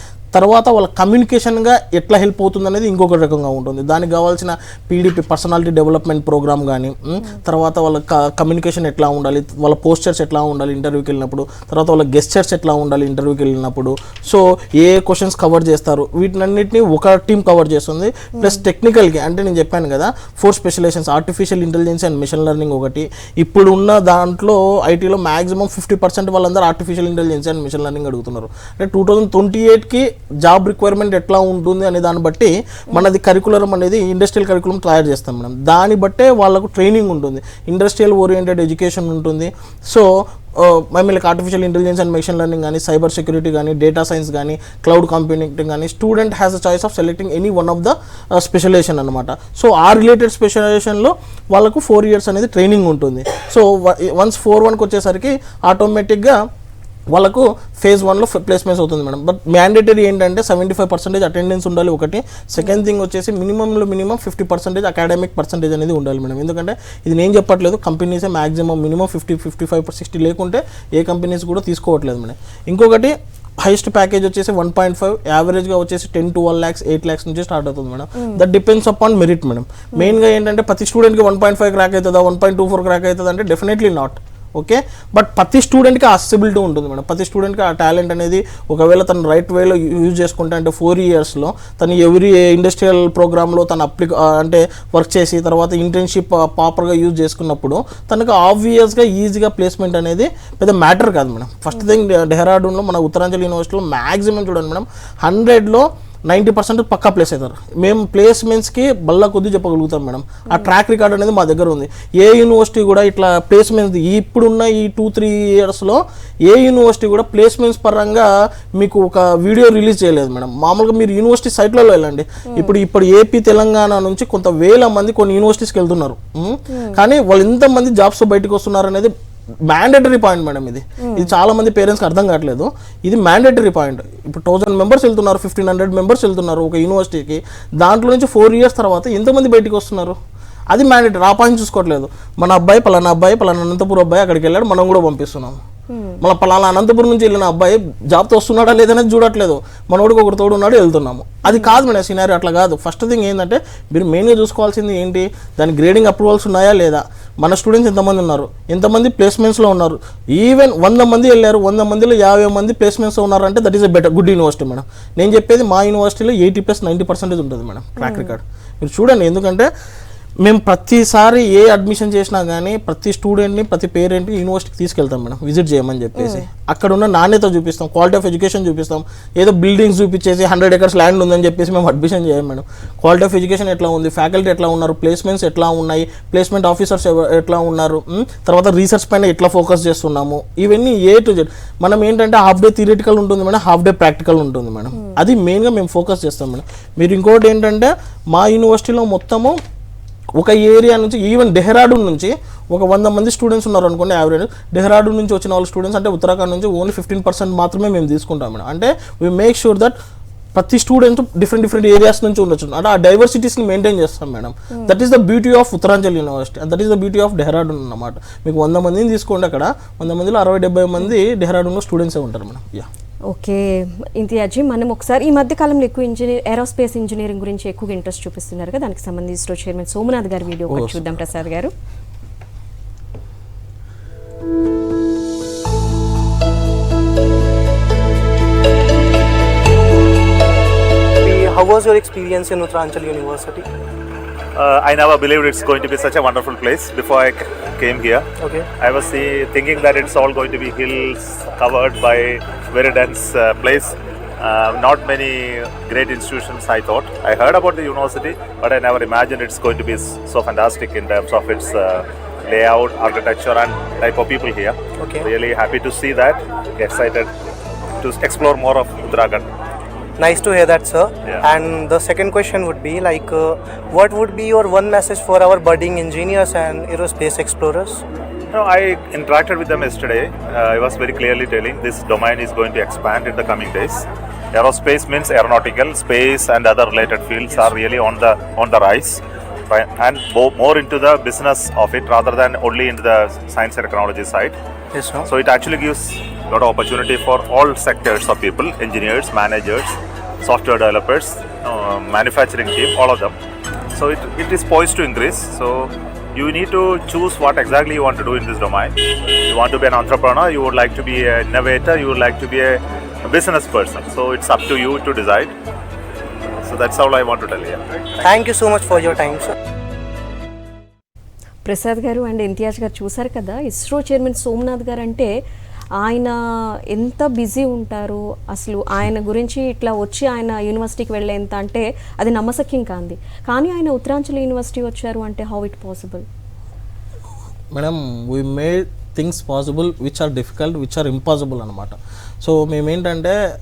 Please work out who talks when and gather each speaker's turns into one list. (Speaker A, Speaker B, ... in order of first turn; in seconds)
Speaker A: 0.3-56.4, 57.1-129.1, 129.7-140.2, 140.7-145.6, 146.2-169.7, 170.4-199.6, 200.4-209.9, 210.5-222.9, 230.7-231.1, 337.7-343.4
Speaker B: 78.2-78.4, 126.7-127.0, 131.0-131.3, 145.9-146.2, 151.4-151.8, 168.0-168.3, 176.2-176.4, 223.3-231.7, 321.6-325.3, 326.0-326.4, 326.9-336.2
Speaker C: 241.2-243.7, 248.4-248.7, 265.0-265.3, 270.2-278.0, 294.9-295.3, 318.2-319.5
Speaker D: 244.6-248.3, 248.8-267.3, 268.0-269.5, 278.5-294.6, 295.3-303.4, 303.9-315.5, 316.6-317.8